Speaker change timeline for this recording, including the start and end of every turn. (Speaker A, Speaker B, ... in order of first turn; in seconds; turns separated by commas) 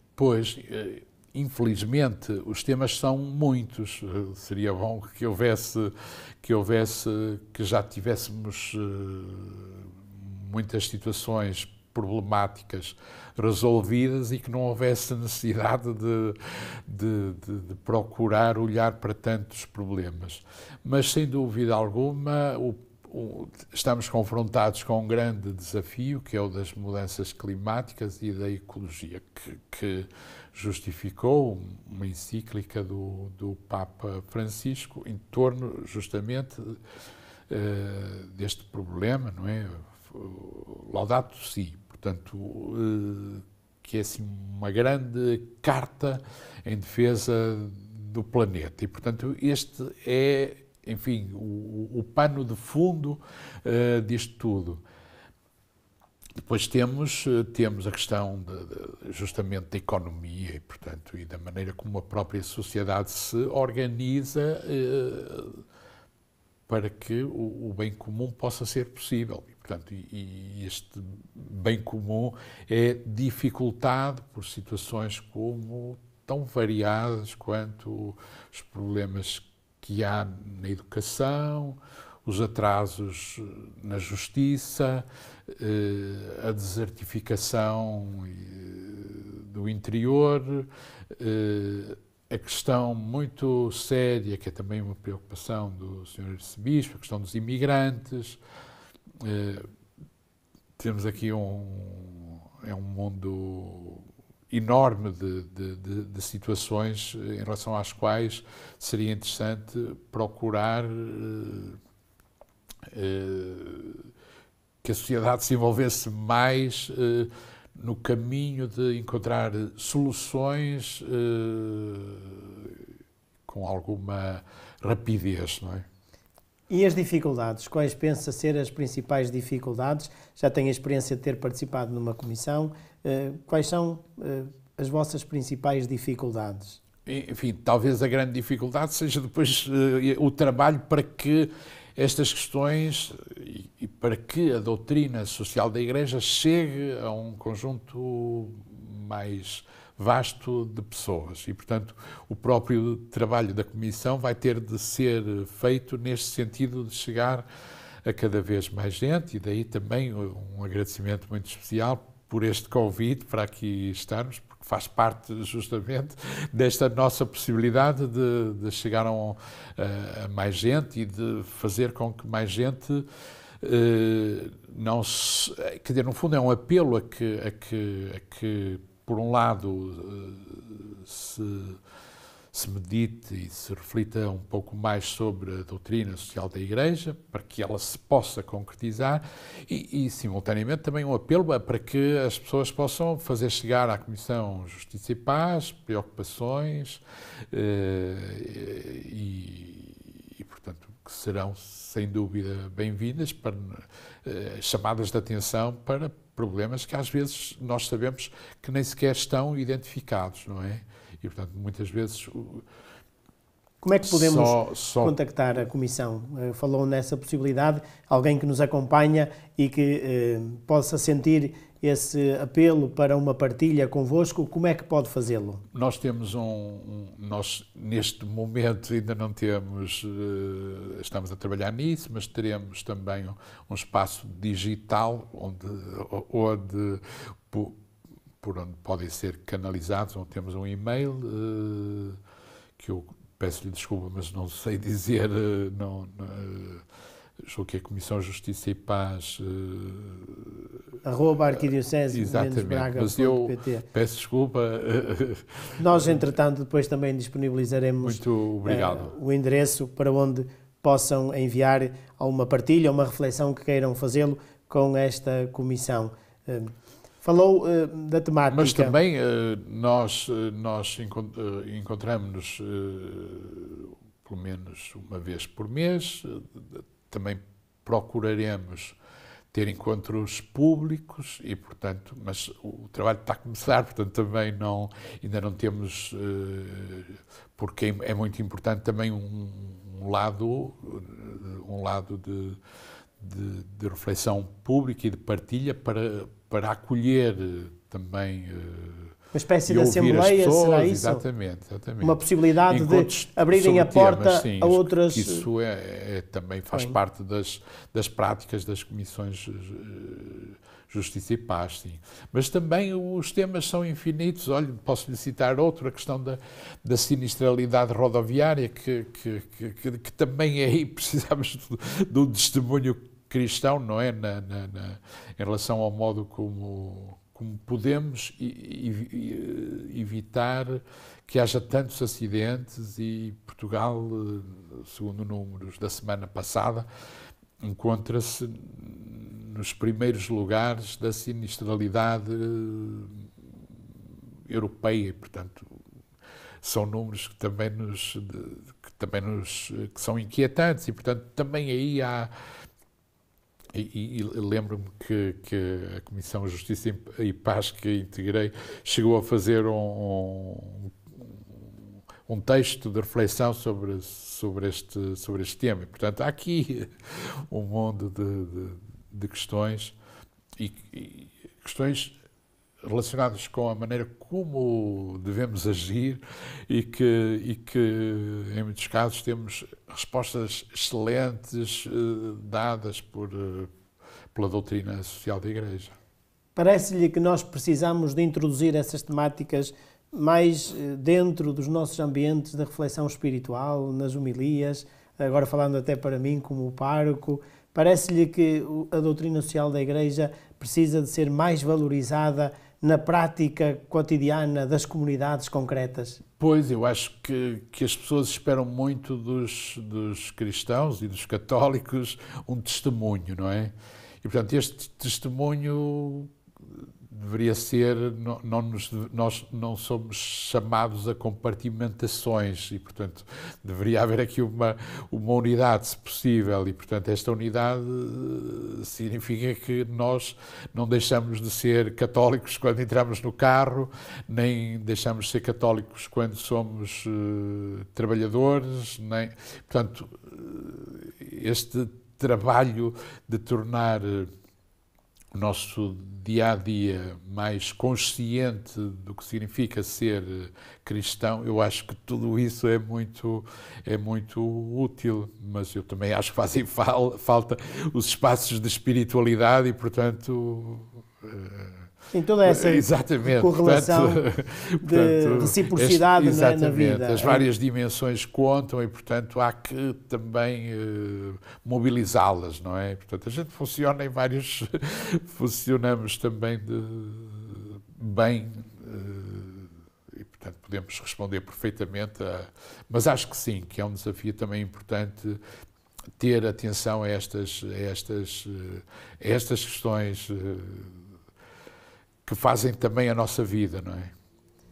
Speaker A: 0.2-36.8, Speaker A: 37.5-54.8, Speaker A: 56.4-65.6, Speaker A: 66.7-98.4, Speaker A: 99.2-99.7, Speaker A: 100.8-111.8, Speaker A: 112.9-114.1, Speaker A: 114.8-122.8, Speaker A: 123.5-125.8, Speaker B: 126.7-136.8, Speaker A: 137.1-157.4, Speaker A: 158.1-173.1, Speaker A: 173.6-181.8, Speaker A: 182.5-212.7, Speaker B: 213.8-225.6, Speaker A: 214.1-215.2, Speaker A: 225.7-237.8, Speaker A: 238.4-242.2, Speaker A: 242.8-246.8, Speaker A: 247.4-250.7, Speaker B: 251.0-253.8, Speaker A: 252.1-256.2, Speaker B: 255.8-269.0, Speaker A: 258.0-259.1, Speaker A: 268.5-279.0, Speaker A: 279.5-292.6, Speaker A: 293.2-299.1, Speaker B: 299.3-301.2, Speaker A: 299.7-336.9, Speaker B: 302.0-305.5, Speaker A: 337.6-343.3, Speaker A: 344.5-345.7, Speaker A: 346.6-352.3, Speaker A: 353.7-369.9, Speaker A: 370.6-372.2, Speaker A: 372.8-383.7, Speaker A: 384.4-385.9, Speaker B: 386.6-406.2, Speaker A: 406.4-416.3, Speaker A: 417.1-444.3, Speaker A: 445.3-461.9, Speaker B: 462.1-464.2, Speaker A: 462.4-485.4, Speaker B: 464.8-467.5, Speaker A: 486.2-490.9, Speaker A: 492.3-494.1